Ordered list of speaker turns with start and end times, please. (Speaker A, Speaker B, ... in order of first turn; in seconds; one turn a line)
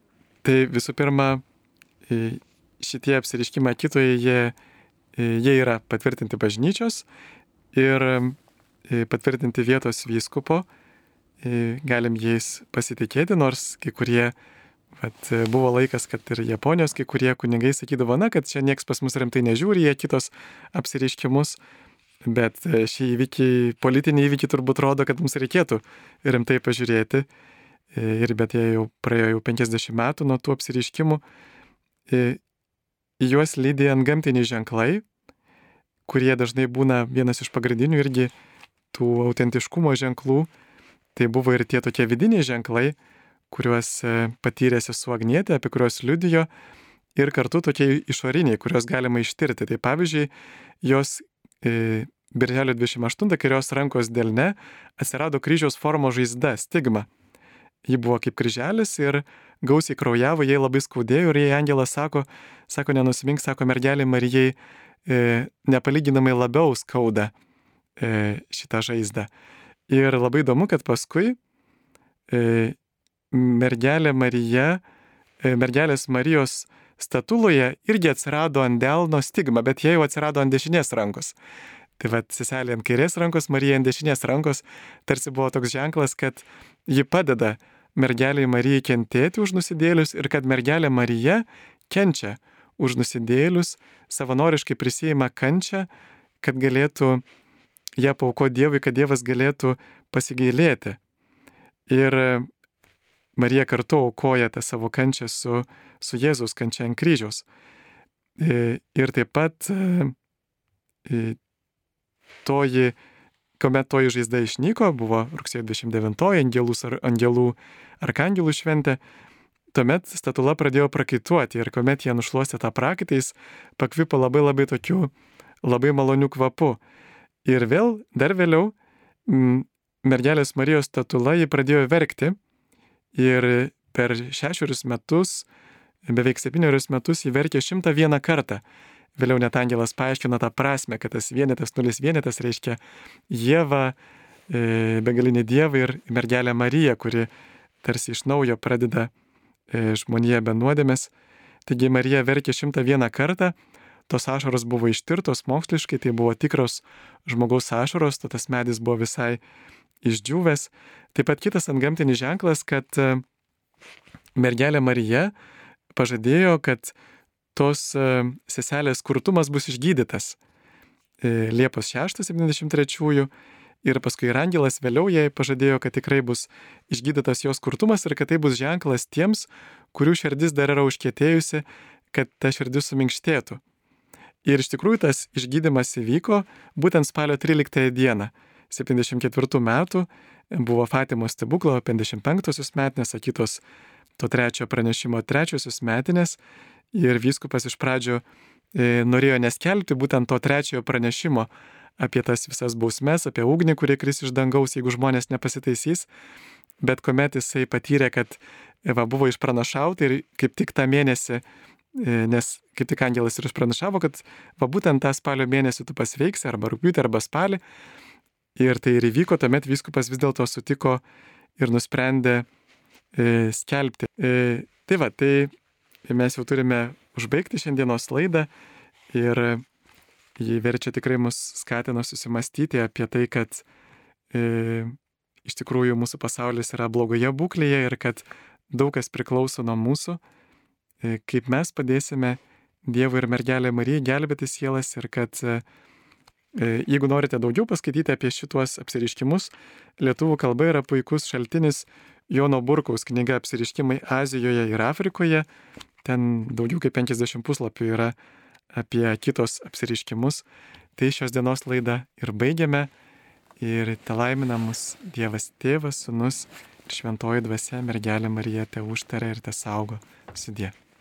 Speaker A: 0.4-1.4
Speaker A: 2.1-4.5
Speaker A: 5.1-7.1
Speaker A: 7.7-10.7
Speaker A: 11.4-14.3
Speaker A: 15.0-21.6
Speaker A: 22.2-27.3
Speaker A: 27.9-31.2
Speaker A: 32.1-32.4
Speaker A: 33.2-35.0
Speaker A: 36.1-38.3
Speaker A: 38.9-40.5
Speaker A: 41.1-43.0
Speaker A: 43.5-46.5
Speaker A: 47.1-50.3
Speaker A: 50.8-57.1
Speaker A: 57.9-67.3
Speaker A: 68.0-69.3
Speaker A: 69.9-71.4
Speaker A: 72.3-72.8
Speaker A: 73.3-74.8
Speaker A: 75.4-81.4
Speaker A: 82.0-95.9
Speaker A: 96.4-97.2
Speaker A: 98.0-101.0
Speaker A: 101.9-102.5
Speaker A: 103.4-107.5
Speaker A: 108.4-110.2
Speaker A: 111.0-111.4
Speaker A: 112.5-113.0
Speaker A: 113.6-119.0
Speaker A: 119.7-125.1
Speaker A: 125.6-126.8
Speaker A: 127.5-128.8
Speaker A: 129.3-132.4
Speaker A: 133.1-135.5
Speaker A: 136.1-138.6
Speaker A: 139.2-144.0
Speaker A: 144.5-147.3
Speaker A: 147.8-149.1
Speaker A: 149.7-151.1
Speaker A: 151.7-153.6
Speaker A: 154.1-159.4
Speaker A: 160.0-163.2
Speaker A: 164.4-165.3
Speaker A: 165.9-166.9
Speaker A: 167.5-170.4
Speaker A: 171.2-173.3
Speaker A: 173.8-183.6
Speaker A: 184.4-193.6
Speaker A: 194.2-196.4
Speaker A: 196.9-206.1
Speaker A: 206.8-211.4
Speaker A: 212.0-217.6
Speaker A: 218.6-221.0
Speaker A: 221.6-222.5
Speaker A: 223.1-225.5
Speaker A: 226.1-228.5
Speaker A: 229.1-229.6
Speaker A: 230.4-233.7
Speaker A: 234.3-234.9
Speaker A: 235.4-240.2
Speaker A: 241.0-245.6
Speaker A: 246.6-255.5
Speaker A: 256.0-258.2
Speaker A: 258.7-260.4
Speaker A: 261.0-262.9
Speaker A: 263.6-270.8